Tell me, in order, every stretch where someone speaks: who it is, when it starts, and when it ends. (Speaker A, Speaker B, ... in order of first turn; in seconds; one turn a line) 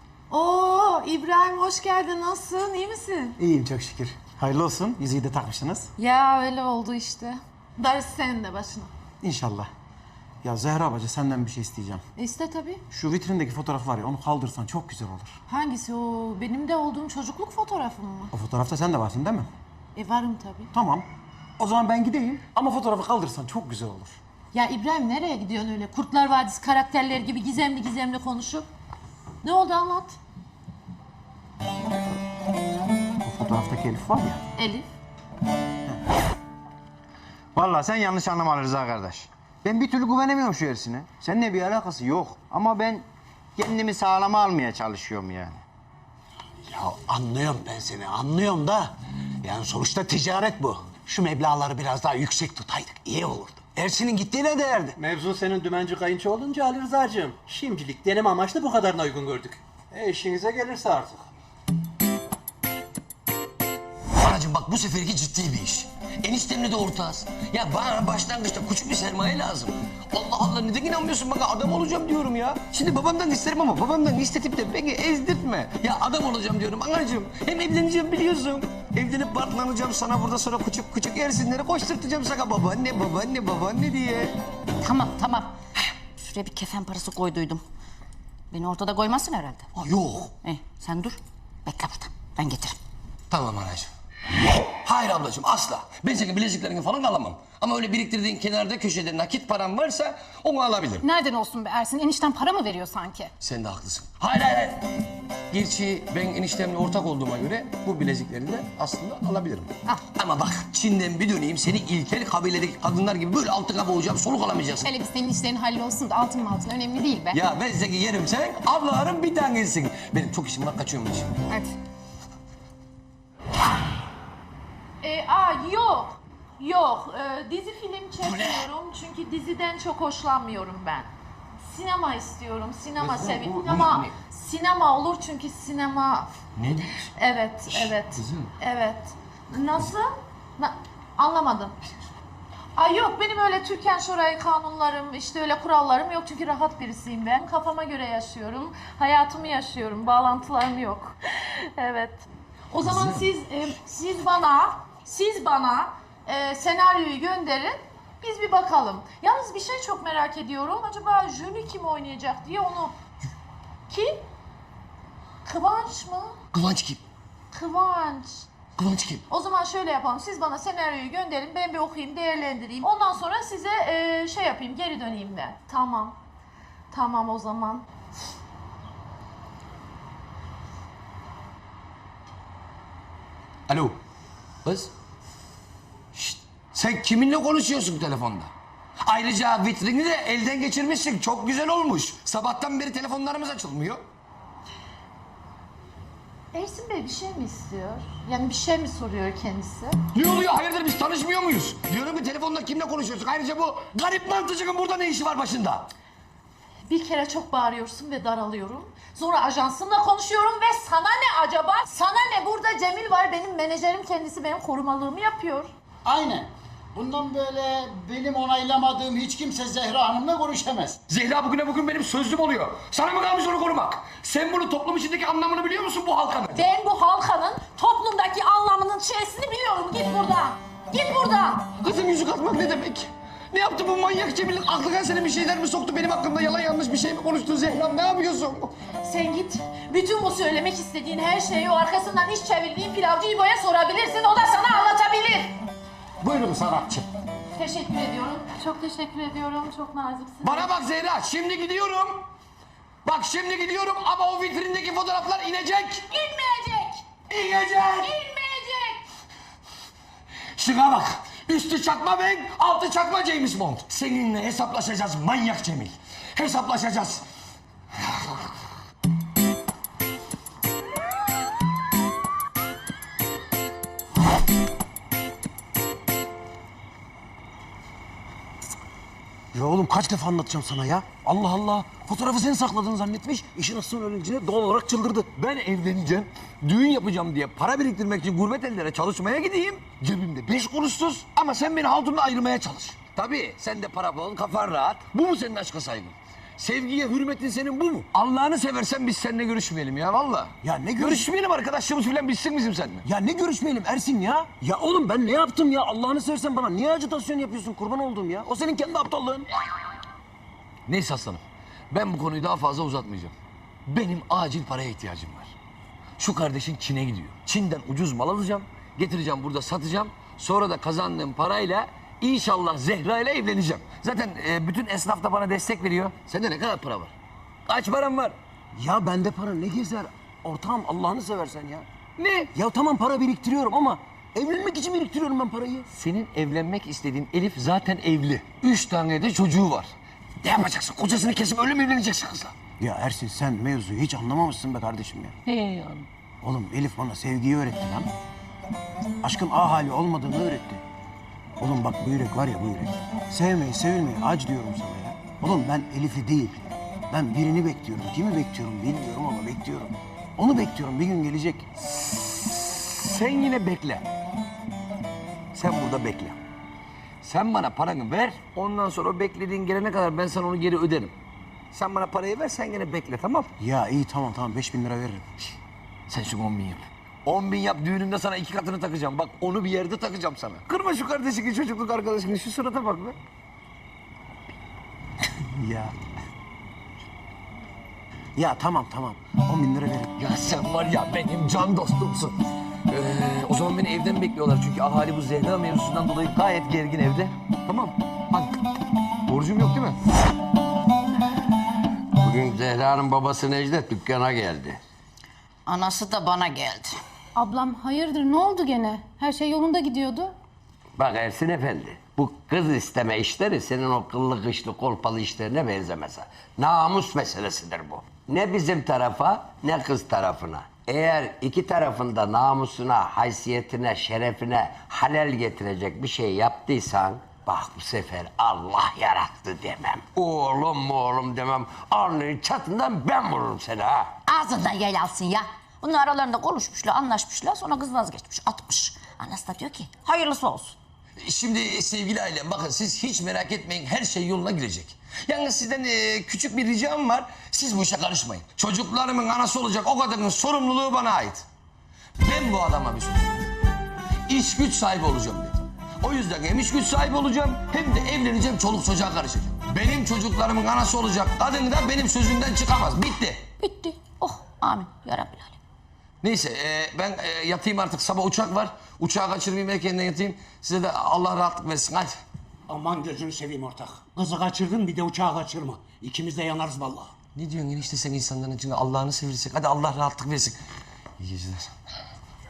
Speaker A: 0.3-3.4
Speaker B: 3.4-5.9
Speaker A: 6.0-8.9
Speaker B: 9.2-9.7
Speaker B: 10.4-12.0
Speaker A: 12.2-12.8
Speaker B: 12.9-15.3
Speaker A: 15.5-18.3
Speaker B: 18.3-19.5
Speaker A: 19.9-20.7
Speaker B: 20.7-21.1
Speaker B: 21.6-24.2
Speaker A: 24.5-28.7
Speaker A: 29.4-30.2
Speaker B: 33.2-34.4
Speaker A: 34.6-34.9
Speaker C: 37.5-43.0
Speaker C: 43.6-45.6
Speaker D: 46.8-54.9
Speaker E: 55.0-61.2
Speaker F: 64.2-84.3
Speaker G: 84.8-85.5
Speaker G: 86.2-87.6
Speaker G: 88.5-89.7
Speaker F: 89.8-90.3
Speaker G: 90.4-92.8
Speaker F: 93.3-93.9
Speaker F: 94.8-101.0
Speaker H: 101.0-103.3
Speaker F: 103.4-104.9
Speaker F: 105.5-114.9
Speaker H: 114.8-117.4
Speaker F: 117.3-121.3
Speaker H: 121.5-121.8
Speaker A: 125.0-131.1
Speaker F: 128.2-128.7
Speaker A: 131.6-136.3
Speaker F: 133.0-134.1
Speaker F: 136.6-137.1
Speaker A: 137.1-141.8
Speaker F: 137.7-138.5
Speaker A: 142.8-162.9
Speaker F: 152.8-153.3
Speaker A: 163.9-164.2
Speaker A: 165.4-166.3
Speaker F: 166.5-167.0
Speaker A: 167.5-168.5
Speaker F: 168.8-169.2
Speaker A: 169.3-176.2
Speaker A: 176.9-177.9
Speaker F: 183.7-184.0
Speaker F: 184.6-184.9
Speaker F: 186.1-188.5
Speaker F: 189.0-194.0
Speaker A: 196.5-200.0
Speaker F: 200.1-205.9
Speaker A: 206.9-215.7
Speaker I: 216.1-221.0
Speaker F: 221.1-226.7
Speaker A: 226.5-231.7
Speaker F: 231.8-238.7
Speaker A: 239.0-245.5
Speaker F: 246.2-247.1
Speaker A: 247.6-250.7
Speaker F: 250.4-252.3
Speaker F: 253.0-256.0
Speaker A: 256.1-257.1
Speaker F: 257.3-258.1
Speaker A: 257.9-259.0
Speaker F: 260.6-267.2
Speaker B: 279.5-285.3
Speaker F: 285.3-303.1
Speaker B: 300.6-301.3
Speaker B: 303.0-309.5
Speaker F: 310.9-313.3
Speaker F: 313.9-315.5
Speaker F: 316.2-327.1
Speaker F: 327.7-328.4
Speaker B: 328.8-331.9
Speaker F: 332.2-332.5
Speaker B: 332.5-335.9
Speaker F: 335.9-342.5
Speaker B: 342.8-345.4
Speaker F: 345.5-346.1
Speaker B: 346.4-348.1
Speaker B: 349.2-350.8
Speaker B: 351.6-361.7
Speaker F: 362.0-364.1
Speaker F: 365.5-366.4
Speaker F: 367.2-371.1
Speaker F: 371.7-373.5
Speaker B: 373.6-375.5
Speaker F: 376.1-383.2
Speaker B: 385.6-385.9
Speaker B: 388.4-390.1
Speaker F: 390.2-392.4
Speaker F: 392.9-398.5
Speaker F: 399.3-400.0
Speaker J: 402.2-404.8
Speaker G: 405.7-407.0
Speaker H: 407.4-410.4
Speaker J: 411.0-434.1
Speaker G: 434.3-440.8
Speaker F: 441.2-451.4
Speaker F: 452.2-453.4
Speaker F: 454.3-463.4
Speaker G: 463.6-465.6
Speaker F: 466.2-472.2
Speaker D: 472.7-477.1
Speaker F: 477.4-480.6
Speaker F: 481.2-481.7